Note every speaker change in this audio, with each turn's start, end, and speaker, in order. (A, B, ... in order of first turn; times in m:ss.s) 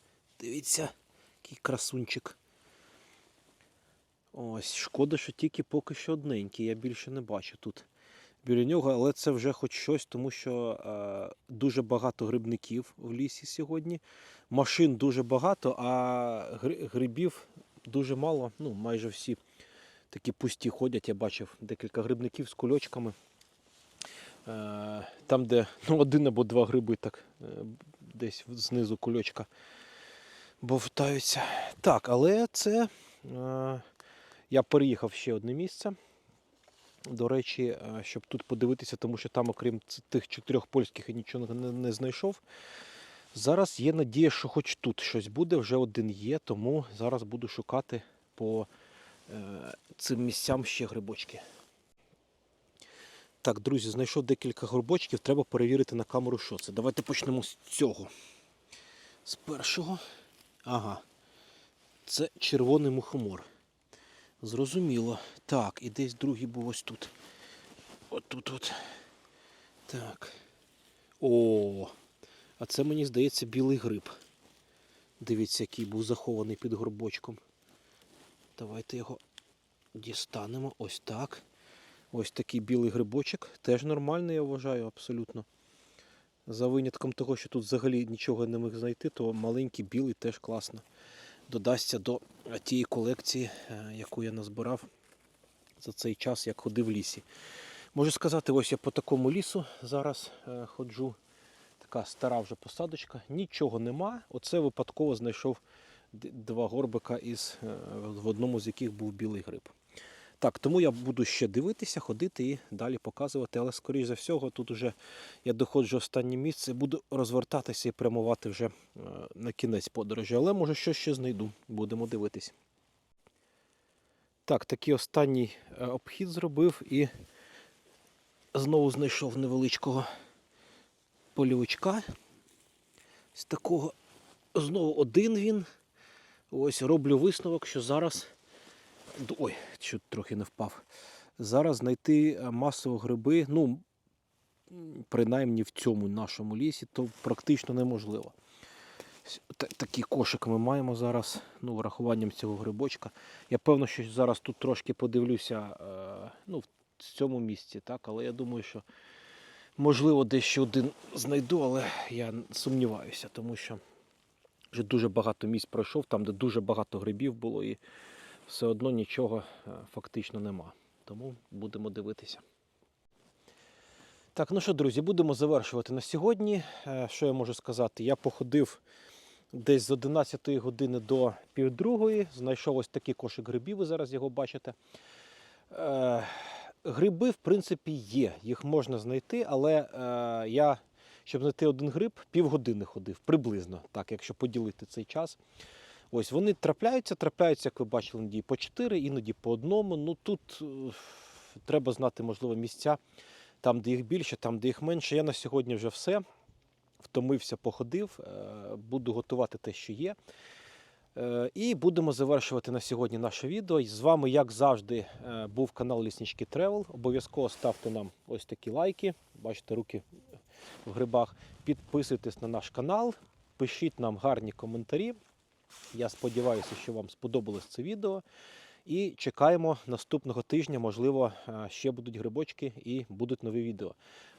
0:00.4-0:02.4 A
0:04.3-0:07.9 A
0:08.4-0:19.4 A
0:20.1-0:23.2 A
0:24.4-0:29.5 A
0:30.6-0:33.8 A
0:34.5-0:36.0 A
0:37.1-0:42.4 A
0:43.3-0:48.7 A
0:49.3-0:51.4 A
0:53.4-0:58.1 A
0:59.2-1:00.0 A
1:00.6-1:01.0 A
1:02.0-1:03.5 A
1:04.4-1:07.1 A
1:08.1-1:08.9 A
1:09.9-1:10.4 A
1:11.2-1:11.9 A
1:12.6-1:14.1 A
1:15.2-1:17.4 A
1:18.6-1:19.2 A
1:19.9-1:21.4 A
1:22.1-1:25.4 A
1:26.5-1:30.8 A
1:31.5-1:34.9 A
1:35.8-1:37.2 A
1:37.9-1:41.2 A
1:41.8-1:45.6 A
1:46.1-1:49.7 A
1:50.4-2:02.6 A
2:04.4-2:07.1 A
2:08.5-2:10.1 A
2:11.3-2:12.0 A
2:13.3-2:13.9 A
2:14.5-2:15.7 A
2:16.5-2:18.3 A
2:19.1-2:20.8 A
2:21.4-2:23.8 A
2:24.7-2:28.3 A
2:29.2-2:38.8 A
2:39.8-2:43.8 A
2:44.7-2:47.8 A
2:48.5-2:52.4 A
2:54.3-2:58.8 A
2:59.5-3:04.8 A
3:05.7-3:15.4 A
3:16.1-3:23.0 A
3:23.6-3:26.2 A
3:27.0-3:30.2 A
3:31.1-3:40.0 A
3:40.8-3:45.2 A
3:45.9-3:48.2 A
3:48.8-3:54.0 A